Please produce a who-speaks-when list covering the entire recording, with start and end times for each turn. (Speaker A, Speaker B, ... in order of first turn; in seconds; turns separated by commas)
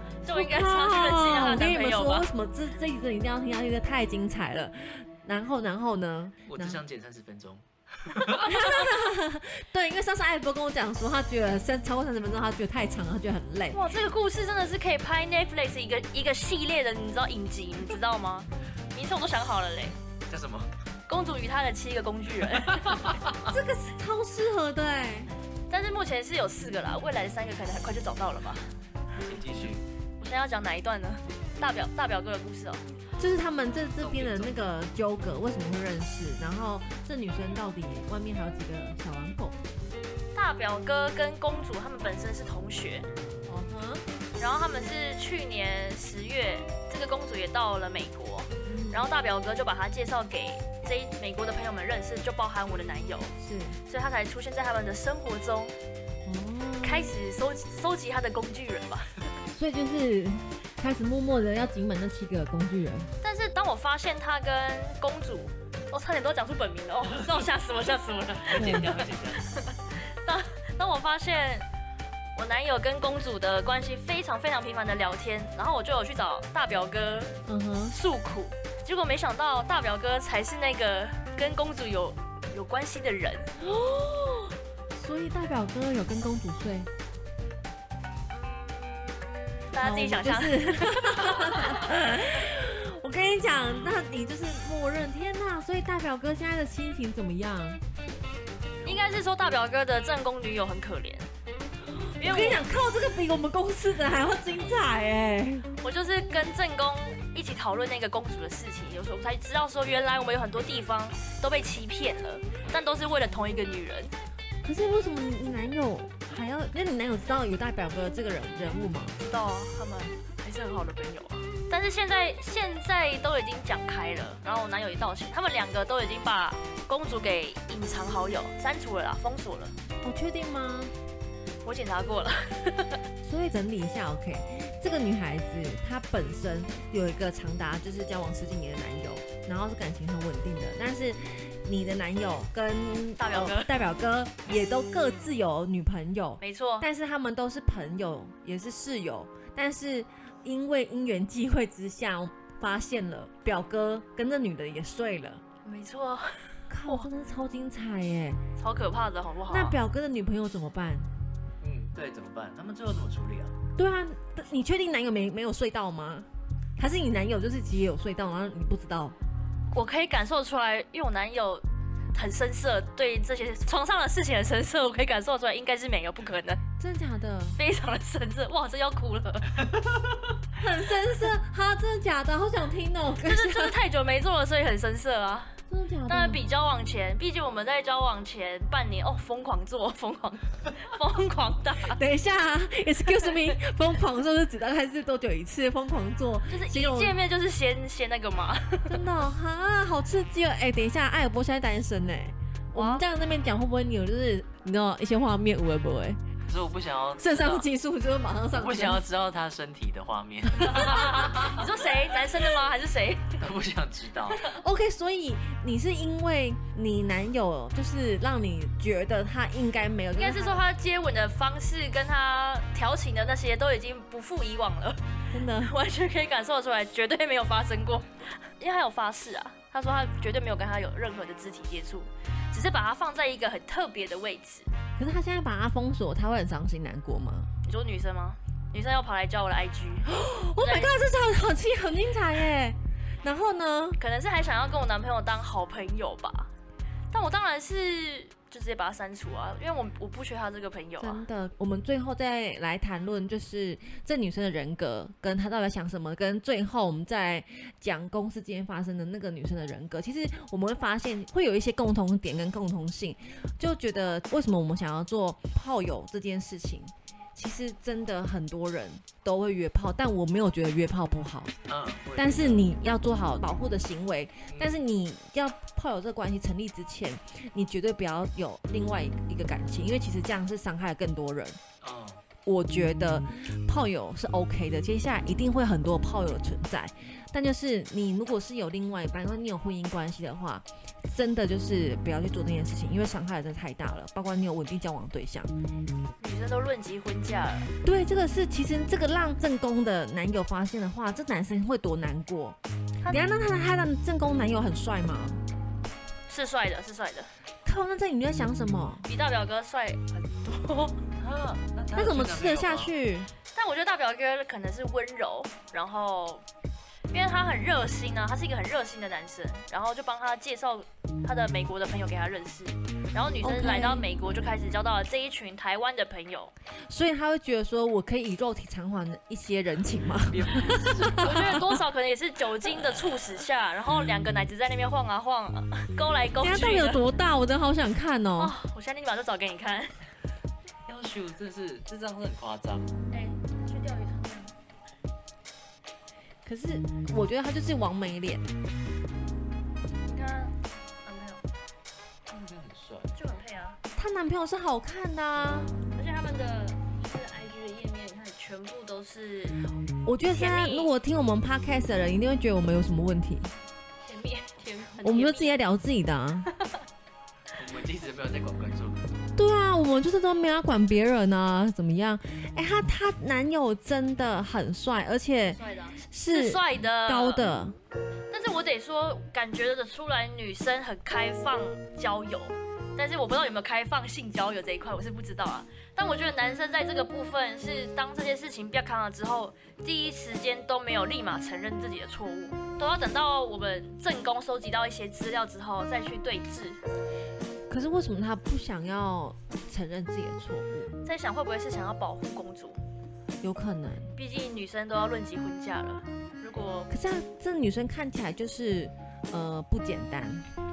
Speaker A: 0.2-2.3, Speaker B: 0.3-6.8, Speaker C: 6.5-8.8, Speaker B: 8.4-13.8, Speaker A: 13.7-19.9, Speaker C: 20.3-20.7, Speaker A: 21.1-23.1, Speaker C: 22.6-23.4, Speaker B: 23.4-25.3, Speaker A: 25.7-28.7, Speaker C: 29.2-29.8, Speaker A: 30.2-32.8, Speaker B: 33.2-39.6, Speaker C: 34.0-34.6, Speaker A: 40.3-43.1, Speaker B: 43.5-44.0, Speaker A: 44.4-53.3, Speaker B: 48.6-49.0, Speaker B: 53.4-53.8, Speaker A: 53.9-55.7, Speaker B: 56.2-57.1, Speaker A: 56.8-59.2, Speaker B: 59.5-63.1, Speaker A: 63.2-71.7, Speaker C: 68.3-69.5, Speaker B: 68.5-69.0, Speaker A: 72.3-77.3, Speaker B: 77.5-77.9, Speaker A: 77.9-83.5, Speaker B: 83.6-86.9, Speaker A: 89.7-91.8, Speaker B: 89.8-97.8, Speaker A: 98.8-101.3, Speaker A: 102.2-102.6, Speaker B: 102.2-105.7, Speaker A: 105.8-114.1, Speaker B: 114.6-119.1, Speaker A: 119.2-129.8, Speaker B: 130.0-130.9, Speaker A: 131.6-133.0, Speaker B: 133.2-155.4, Speaker A: 143.2-143.7, Speaker A: 146.4-146.9, Speaker A: 155.6-157.1, Speaker B: 156.7-158.4, Speaker A: 158.6-159.8, Speaker B: 159.5-161.1, Speaker C: 161.6-163.6, Speaker B: 163.8-169.2, Speaker A: 169.7-176.6, Speaker B: 176.8-177.6, Speaker A: 177.6-179.6, Speaker B: 180.6-183.8, Speaker A: 183.2-185.6, Speaker B: 185.7-186.4, Speaker A: 186.1-192.0, Speaker B: 191.8-197.2, Speaker A: 196.5-199.0, Speaker B: 198.9-206.2, Speaker A: 202.7-203.0, Speaker C: 206.5-207.7, Speaker B: 207.2-209.0, Speaker C: 208.5-211.7, Speaker A: 210.6-213.4, Speaker B: 210.6-211.0, Speaker C: 213.4-214.5, Speaker B: 214.4-220.6, Speaker A: 220.2-225.0, Speaker B: 225.3-225.7, Speaker A: 225.5-234.7, Speaker B: 235.0-237.5, Speaker A: 237.6-240.9, Speaker B: 240.1-244.0, Speaker A: 244.0-246.5, Speaker A: 247.1-251.2, Speaker B: 251.0-271.5, Speaker C: 271.7-272.7, Speaker B: 272.1-281.6, Speaker C: 274.5-274.7, Speaker C: 281.8-282.2, Speaker B: 282.4-295.5, Speaker A: 296.2-297.7, Speaker B: 297.8-302.6, Speaker B: 303.1-305.4, Speaker A: 306.3-307.3, Speaker B: 307.6-309.1, Speaker A: 309.0-311.0, Speaker C: 311.2-312.9, Speaker B: 311.9-313.3, Speaker A: 313.5-316.4, Speaker A: 317.1-326.5, Speaker B: 323.4-324.1, Speaker B: 326.9-331.7, Speaker C: 330.3-331.6, Speaker A: 331.2-337.0, Speaker B: 336.4-338.5, Speaker A: 338.4-339.9, Speaker C: 340.9-342.9, Speaker A: 343.1-344.6, Speaker B: 346.4-348.4, Speaker A: 350.0-351.4, Speaker C: 352.3-353.1, Speaker A: 353.1-353.8, Speaker B: 353.9-355.7, Speaker A: 355.9-359.6, Speaker B: 360.0-363.5, Speaker A: 360.3-360.9, Speaker A: 364.0-365.6, Speaker B: 365.0-366.5, Speaker A: 366.5-366.8, Speaker C: 367.5-369.0, Speaker B: 369.4-377.7, Speaker A: 375.5-377.4, Speaker A: 378.3-396.8, Speaker B: 397.7-400.9, Speaker A: 401.0-402.8, Speaker B: 403.4-404.1, Speaker A: 404.1-406.9, Speaker B: 406.9-410.5